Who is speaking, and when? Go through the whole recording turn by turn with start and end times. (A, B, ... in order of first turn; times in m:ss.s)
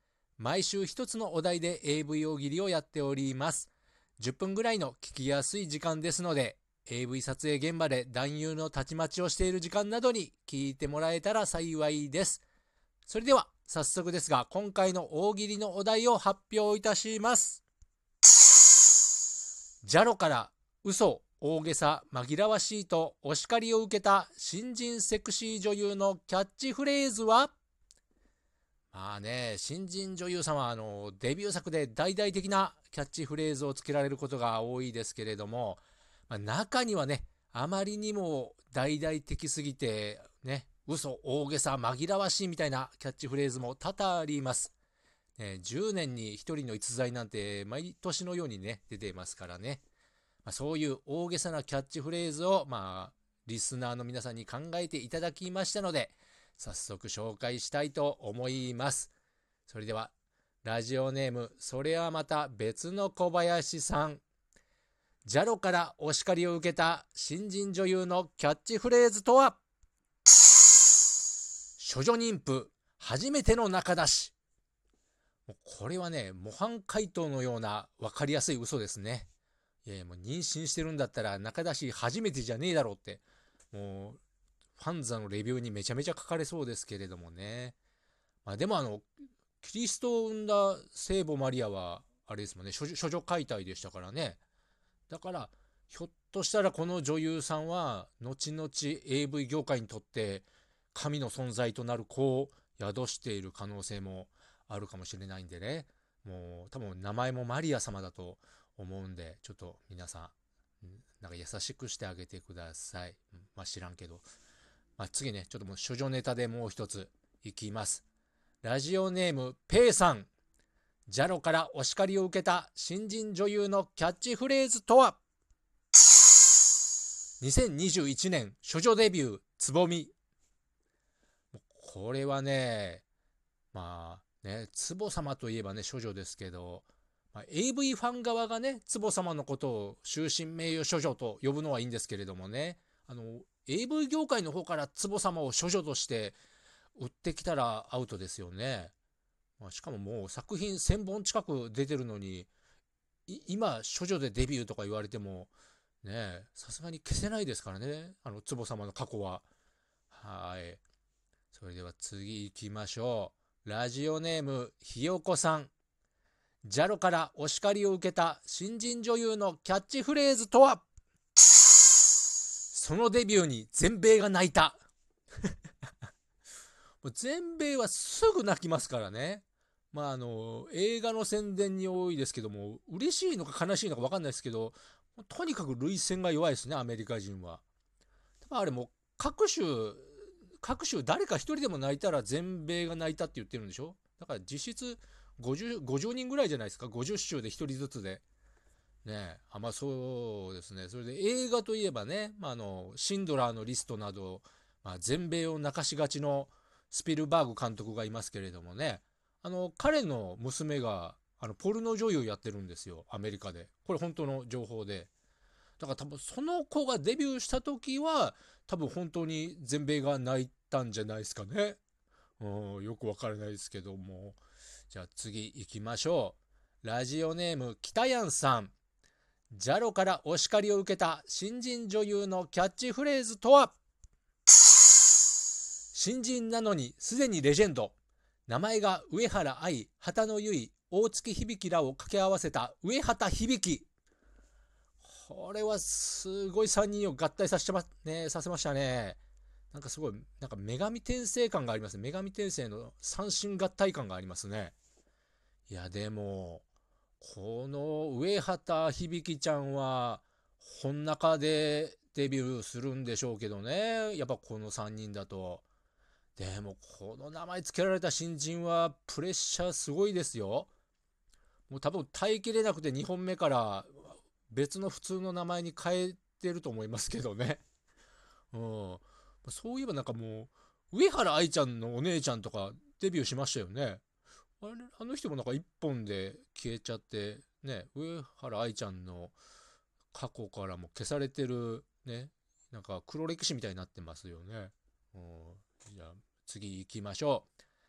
0:00.4-0:12.4 A
0:13.1-0:17.6 A
0:19.8-0:27.5 A
0:28.9-0:44.7 A
0:45.4-0:49.8 A
0:50.4-0:59.1 A
0:59.7-1:00.1 A
1:00.6-1:04.2 A
1:05.2-1:09.6 A
1:11.8-1:14.3 A
1:15.5-1:19.3 A
1:19.8-1:24.2 A
1:24.8-1:27.8 A
1:28.4-1:34.4 A
1:35.1-1:54.2 A
1:55.0-1:58.0 A
1:58.6-2:00.3 A
2:01.1-2:05.2 A
2:07.4-2:10.1 A
2:11.5-2:13.0 A
2:13.7-2:26.4 A
2:27.0-2:28.9 A
2:29.6-2:32.5 A
2:33.3-2:35.5 A
2:36.0-2:39.4 A
2:40.1-2:40.8 A
2:41.5-2:45.7 A
2:46.6-2:50.8 A
2:52.7-2:54.8 A
2:57.0-3:07.6 A
3:08.4-3:18.2 A
3:19.0-3:35.1 A
3:35.8-3:41.8 A
3:42.4-3:44.4 A
3:44.9-3:48.7 A
3:49.5-3:53.8 A
3:55.9-3:58.0 A
3:58.5-4:03.9 A
4:05.0-4:09.2 A
4:09.7-4:14.8 A
4:15.7-4:16.6 A
4:17.2-4:25.6 A
4:26.4-4:30.7 A
4:31.7-4:37.6 A
4:38.5-4:44.0 A
4:44.6-4:49.3 A
4:50.1-4:57.5 A